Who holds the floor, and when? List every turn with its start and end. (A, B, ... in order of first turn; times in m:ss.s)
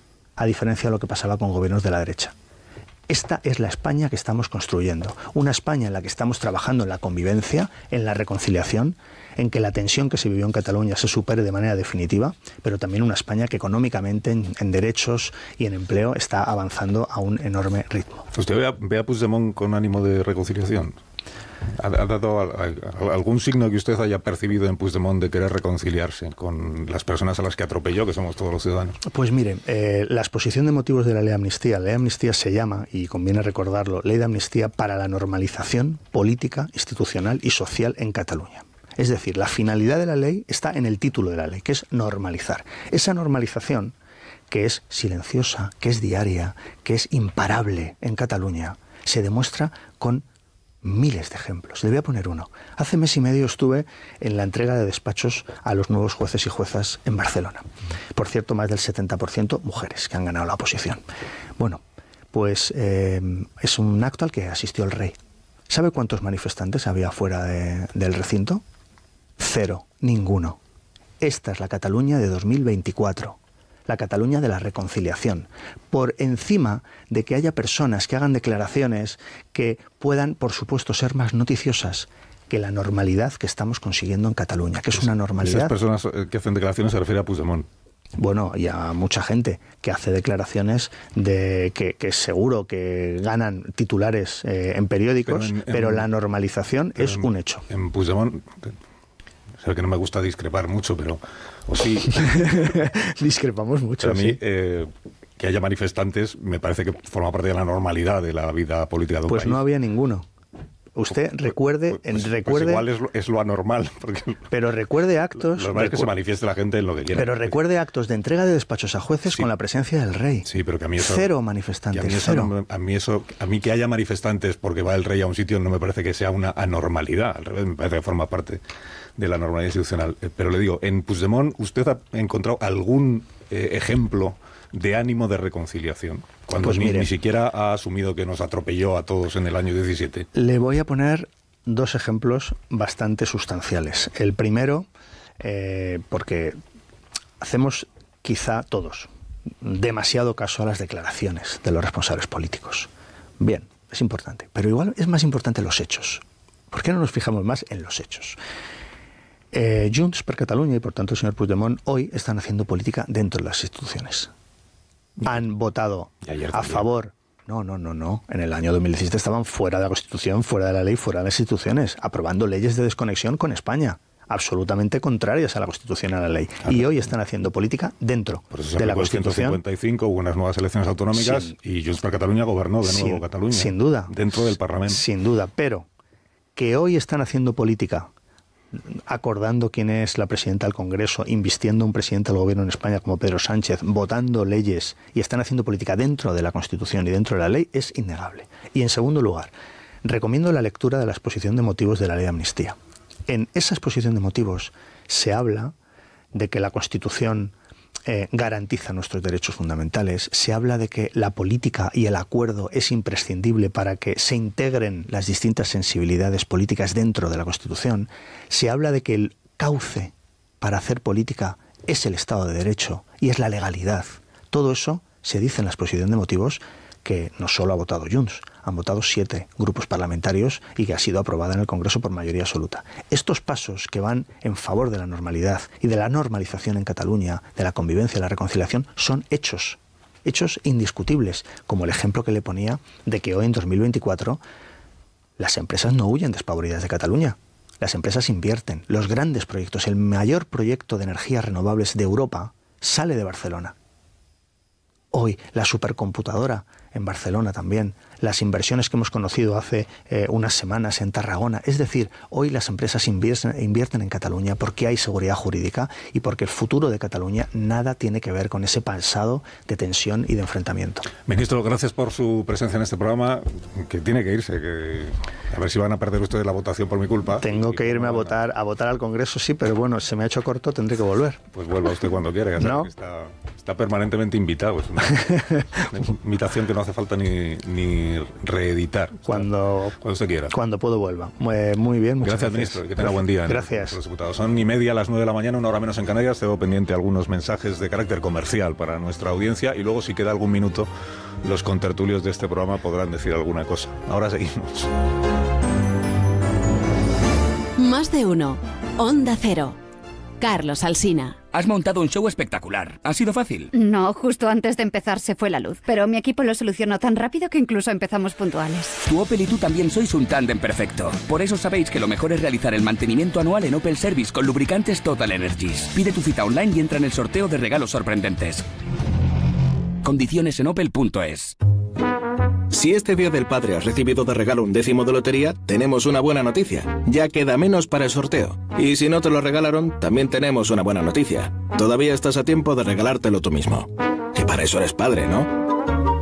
0:00.4-0:02.3 A
0:03.1-0:18.3 A
0:18.3-0:21.0 B
0:21.7-0:29.0 B
0:29.0-0:43.9 A
0:44.5-0:50.2 A
0:50.8-1:01.0 A
1:02.3-1:05.2 A
1:05.7-1:08.6 A
1:09.4-1:10.6 A
1:11.2-1:25.8 A
1:24.9-1:27.7 B
1:28.2-1:37.6 A
1:35.2-1:36.1 B
1:37.0-1:38.8 B
1:39.6-1:42.7 B
1:42.1-1:44.4 A
1:44.0-1:49.6 B
1:49.3-1:50.3 A
1:50.9-1:52.8 A
1:51.9-1:54.5 B
1:54.5-1:56.1 A
1:55.4-1:57.6 B
1:57.1-2:02.5 A
2:00.4-2:01.3 B
2:01.9-2:08.6 B
2:09.2-2:20.3 B
2:16.6-2:17.1 A
2:20.3-2:24.9 A
2:25.4-2:26.6 A
2:27.4-2:29.1 A
2:29.6-2:38.4 A
2:39.5-2:44.3 A
2:45.2-2:59.6 A
2:46.2-2:46.9 B
2:56.6-2:56.9 B
2:58.5-3:05.0 B
3:01.1-3:01.5 A
3:02.8-3:04.1 A
3:04.9-3:05.9 A
3:06.6-3:08.1 A
3:08.7-3:19.5 A
3:20.0-3:22.8 A
3:23.3-3:25.7 A
3:26.3-3:27.5 A
3:28.0-4:04.4 A
4:05.4-4:13.7 A
4:15.1-4:31.1 A
4:31.2-4:38.4 B
4:37.4-4:41.4 A
4:41.5-4:50.5 B
4:42.6-4:42.9 A
4:45.3-4:45.6 A
4:49.2-4:50.0 A
4:50.5-4:54.0 A
4:52.2-5:00.9 B
5:01.4-5:04.9 B
5:07.8-5:09.8 C
5:10.4-5:11.4 C
5:11.5-5:13.7 D
5:13.7-5:19.0 E
5:19.0-5:28.7 D
5:30.0-5:31.6 D
5:32.7-5:45.5 F